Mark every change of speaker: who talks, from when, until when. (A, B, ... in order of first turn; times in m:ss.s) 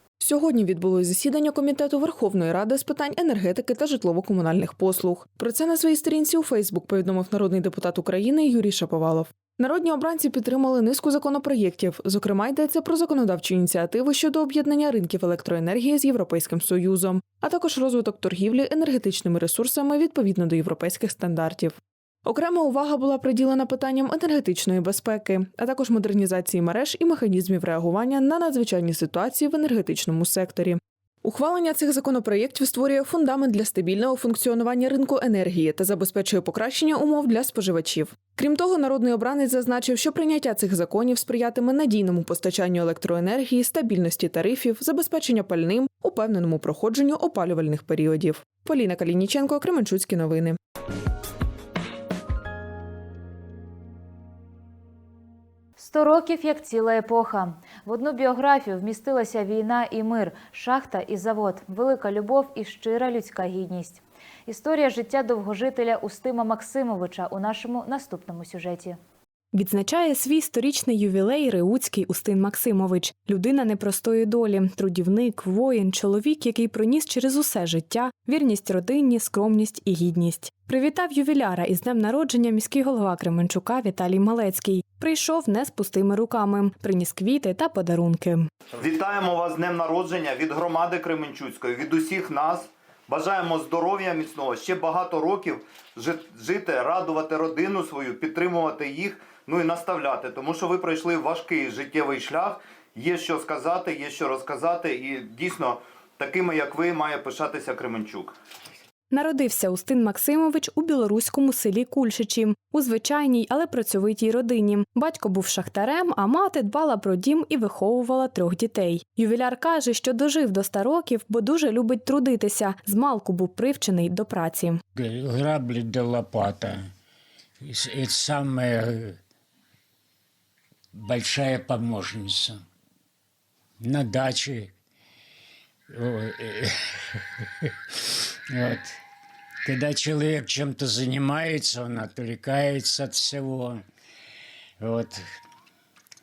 0:00.2-0:50.6 A
0:55.8-1:09.0 B
1:09.5-1:28.5 C
1:28.8-1:48.4 D
1:49.1-2:04.8 C
2:05.0-2:06.8 E
2:07.6-2:09.2 E
2:10.9-2:12.6 E
2:13.8-2:14.7 E
2:15.9-2:16.7 E
2:18.5-2:19.0 E
2:19.6-2:23.8 E
2:24.8-2:25.2 E